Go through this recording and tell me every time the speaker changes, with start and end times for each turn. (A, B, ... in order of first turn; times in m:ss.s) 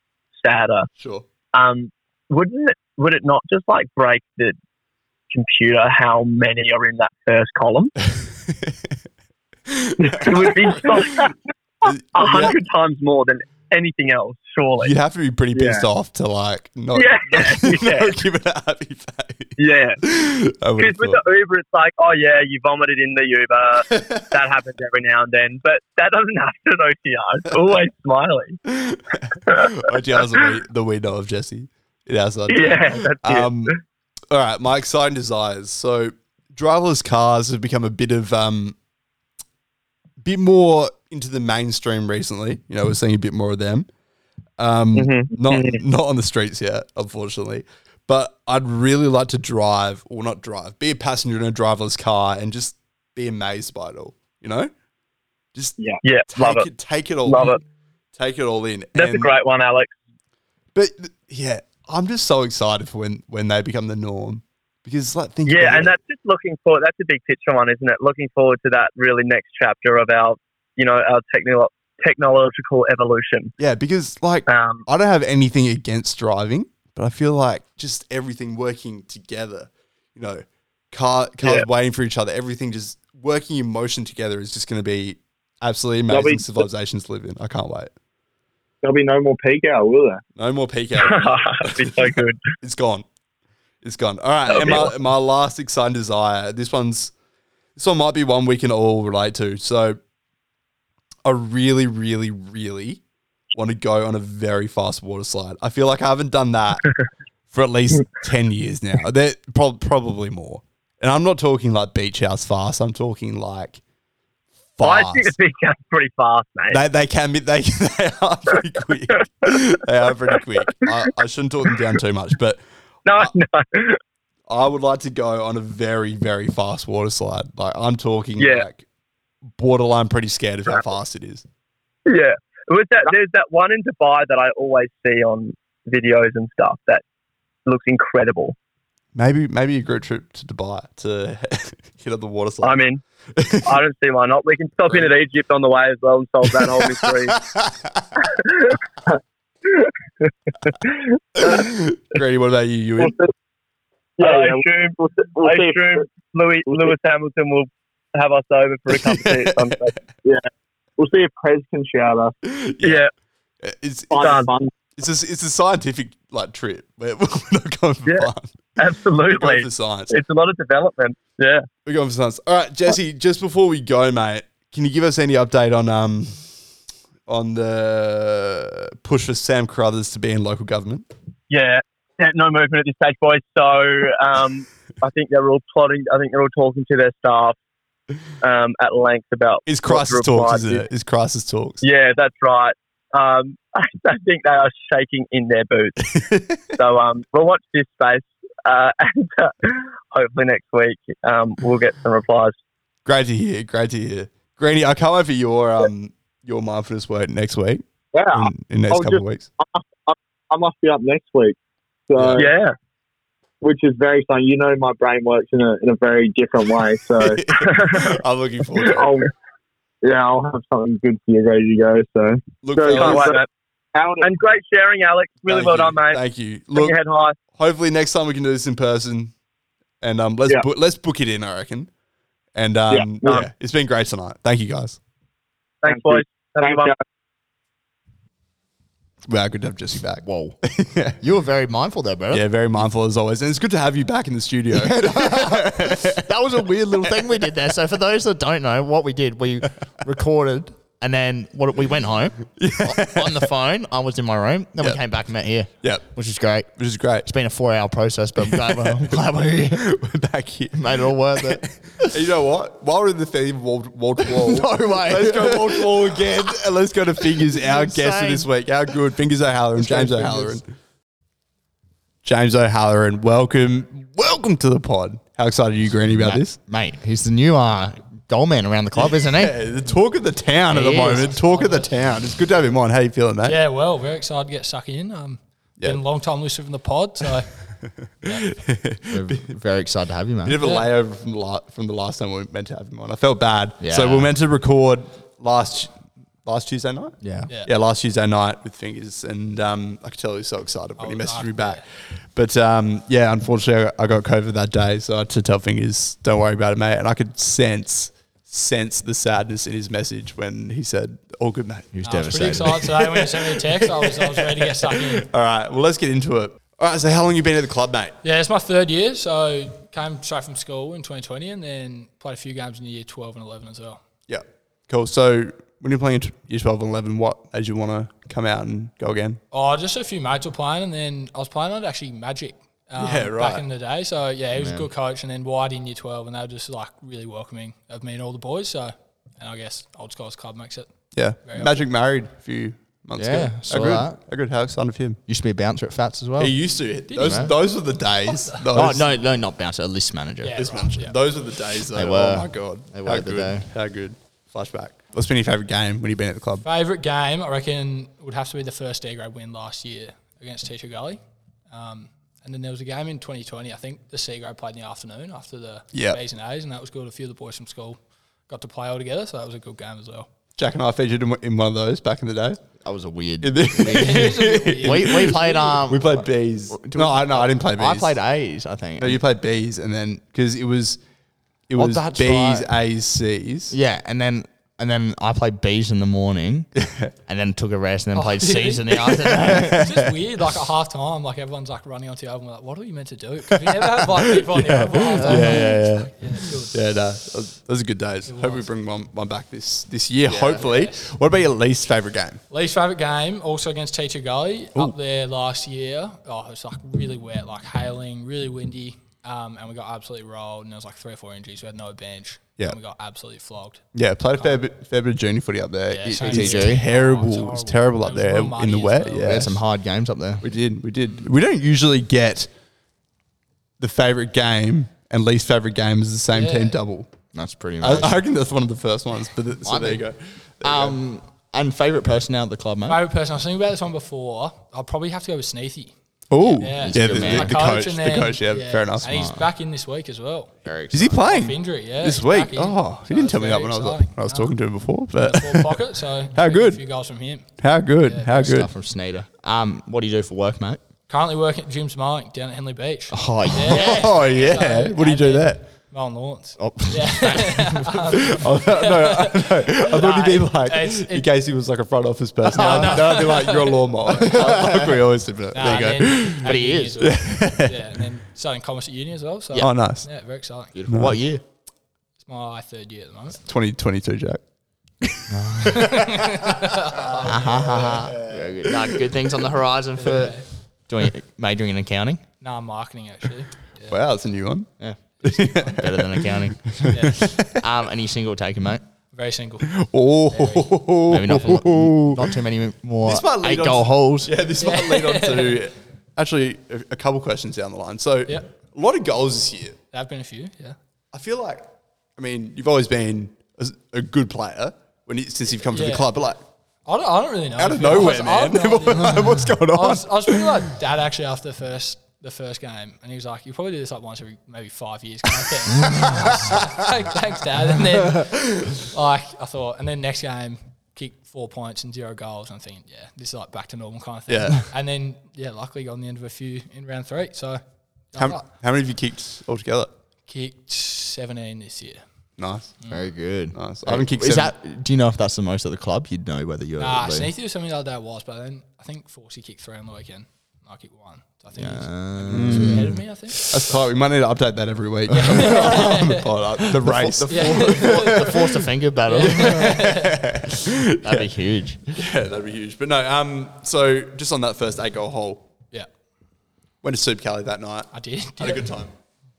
0:00.4-0:00.9 A
0:01.0-0:01.2 B
0:01.5-0:04.6 A
0:05.3-0:07.9 A
0:08.0-0:08.9 B
0:09.7-0:11.2 B
0:10.0-0:14.9 A
0:11.8-0:12.6 B
0:14.8-0:21.2 B
0:15.5-0:15.8 C
0:16.9-0:18.2 A
0:19.6-0:20.0 A
0:20.8-0:28.6 A
0:23.9-0:24.3 B
0:28.6-0:33.7 B
0:29.5-0:30.5 A
0:32.5-0:33.8 A
0:34.3-0:38.8 B
0:40.2-0:43.9 B
0:44.6-0:54.7 B
0:44.9-0:45.8 A
0:55.5-0:57.6 B
0:56.0-0:56.7 A
0:57.2-0:57.6 A
0:58.1-0:59.3 B
0:58.9-0:59.9 A
1:00.7-1:06.0 B
1:05.4-1:13.5 A
1:13.6-1:27.9 B
1:14.5-1:14.8 A
1:26.1-1:26.6 C
1:28.8-1:30.2 C
1:30.4-1:33.0 B
1:31.0-1:32.4 A
1:33.8-1:37.1 B
1:34.4-1:35.0 A
1:37.8-1:40.0 B
1:41.2-1:43.0 B
1:43.5-1:46.8 B
1:47.5-1:53.8 B
1:54.8-1:55.3 B
1:54.8-1:56.8 A
1:56.7-2:03.3 B
1:59.1-1:59.6 A
2:00.2-2:01.1 A
2:01.6-2:02.0 A
2:03.0-2:04.0 A
2:04.5-2:08.8 B
2:08.4-2:08.7 A
2:09.5-2:11.4 B
2:12.0-2:17.0 A
2:17.6-2:18.5 A
2:19.1-2:22.8 B
2:22.6-2:23.0 A
2:23.3-2:23.8 B
2:23.6-2:27.4 A
2:26.5-2:28.0 B
2:28.3-2:28.8 A
2:30.7-2:31.7 A
2:31.4-2:33.1 B
2:33.0-2:33.3 C
2:34.2-2:39.9 A
2:34.2-2:36.0 C
2:38.9-2:40.0 B
2:41.0-2:42.3 C
2:42.4-2:43.0 B
2:42.8-2:43.1 A
2:43.6-2:44.3 B
2:44.1-2:44.7 C
2:44.1-2:44.5 A
2:45.0-2:48.7 B
2:48.0-2:51.6 A
2:49.3-2:50.2 B
2:51.8-2:56.5 B
2:57.2-3:01.1 B
3:01.5-3:07.6 A
3:08.4-3:10.9 A
3:09.6-3:11.8 B
3:11.8-3:16.0 A
3:16.0-3:16.7 B
3:16.7-3:22.6 A
3:23.0-3:29.5 B
3:28.1-3:31.6 C
3:32.1-3:32.5 C
3:32.4-3:32.7 A
3:33.6-3:37.4 C
3:37.2-3:39.1 B
3:37.5-3:38.2 A
3:38.8-3:39.3 C
3:40.0-3:43.4 C
3:42.6-3:43.3 B
3:42.9-3:43.5 A
3:43.9-3:44.3 C
3:44.2-3:47.4 A
3:45.4-3:49.3 B
3:50.0-3:51.9 B
3:52.5-3:55.0 B
3:52.9-3:53.2 C
3:53.2-3:53.5 A
3:55.8-3:57.0 A
3:55.9-3:56.9 C
3:59.2-4:01.2 B
4:00.2-4:00.6 D
4:01.2-4:02.4 D
4:02.3-4:06.2 B
4:04.7-4:19.9 D
4:12.6-4:13.5 B
4:15.8-4:16.1 B
4:16.7-4:17.3 B
4:18.5-4:19.2 B
4:19.7-4:30.7 B
4:20.7-4:22.1 D
4:24.2-4:26.6 D
4:27.2-4:28.5 D
4:29.8-4:30.6 D
4:32.2-4:36.6 B
4:36.1-4:39.6 D
4:39.0-4:43.6 B
4:40.7-4:41.3 D
4:40.9-4:41.9 E
4:43.4-4:47.5 E
4:47.8-4:49.5 B
4:49.1-4:50.6 D
4:50.4-4:55.9 B
4:50.6-4:50.9 E
4:53.8-4:54.3 D
4:56.4-5:12.0 B
4:57.2-4:57.5 D
5:01.0-5:01.8 E
5:11.9-5:13.0 D
5:12.0-5:15.3 E
5:12.7-5:18.2 B
5:18.2-5:24.0 E
5:24.3-5:29.4 B
5:29.5-5:41.8 E
5:33.0-5:33.6 B
5:34.5-5:34.9 D
5:41.1-5:45.2 B
5:43.2-5:44.2 D
5:45.3-5:46.6 D
5:46.4-5:49.1 B
5:47.1-5:48.6 E
5:47.1-5:47.5 D
5:48.7-5:50.6 D
5:50.4-5:51.2 E
5:50.5-5:56.6 B
5:51.9-5:53.7 D
5:56.6-6:01.2 E
6:01.7-6:10.3 E
6:05.9-6:06.2 B
6:10.6-6:12.6 B
6:12.8-6:19.2 D
6:13.4-6:18.2 B
6:13.8-6:15.8 E
6:19.0-6:21.0 B
6:21.7-6:23.7 B
6:21.8-6:22.7 D
6:23.7-6:26.7 D
6:26.8-6:27.1 B
6:27.2-6:29.9 D
6:28.1-6:36.8 E
6:29.2-6:30.0 B
6:34.1-6:42.4 B
6:35.1-6:35.8 D
6:38.2-6:38.7 E
6:40.3-6:41.1 E
6:42.5-6:54.6 E
6:53.9-6:59.6 B
6:55.9-6:59.5 E
6:56.0-6:56.9 D
6:59.2-7:00.4 D
7:00.4-7:02.5 B
7:03.8-7:07.1 B
7:06.3-7:06.8 E
7:07.3-7:08.2 D
7:07.8-7:11.0 B
7:09.6-7:10.0 D
7:10.6-7:13.0 D
7:12.8-7:20.5 E
7:16.3-7:19.2 B
7:16.4-7:17.8 D
7:19.0-7:19.5 D
7:20.6-7:21.2 D
7:20.9-7:26.8 B
7:21.1-7:28.5 E
7:27.6-7:28.7 B
7:28.3-7:30.8 D
7:31.1-7:41.3 E
7:33.1-7:34.2 D
7:33.6-7:35.6 B
7:36.6-7:37.9 D
7:38.1-7:47.9 B
7:42.4-7:44.8 E
7:42.5-7:43.3 D
7:44.2-7:45.0 D
7:45.5-7:50.8 E
7:45.6-7:47.1 D
7:49.6-7:50.1 B
7:50.7-7:51.4 D
7:50.9-7:51.2 B
7:52.2-7:53.4 E
7:53.4-7:54.4 B
7:55.3-7:56.0 D
7:55.6-7:57.9 E
7:57.2-8:02.2 D
7:57.2-7:59.0 B
8:00.0-8:00.5 E
8:02.4-8:04.0 E
8:03.9-8:04.7 B
8:04.8-8:08.8 D
8:05.2-8:07.6 B
8:06.9-8:07.3 E
8:09.1-8:09.7 E
8:09.6-8:12.4 B
8:10.3-8:10.7 E
8:11.1-8:14.3 D
8:13.0-8:19.8 B
8:14.6-8:15.6 E
8:19.9-8:20.8 E
8:21.1-8:26.4 B
8:25.7-8:26.1 E
8:26.8-8:47.6 E
8:27.6-8:30.6 B
8:44.3-8:44.7 B
8:48.1-8:48.4 E
8:48.1-8:49.9 B
8:50.3-8:52.0 E
8:52.4-8:52.7 B
8:52.9-8:57.3 D
8:53.5-8:54.5 B
8:56.8-9:03.8 E
9:01.5-9:03.0 D
9:02.3-9:08.5 B
9:05.1-9:06.6 E
9:05.5-9:05.8 D
9:06.6-9:11.9 D
9:07.2-9:10.3 E
9:09.2-9:11.3 B
9:11.9-9:15.4 B
9:16.8-9:18.9 B
9:17.9-9:18.8 E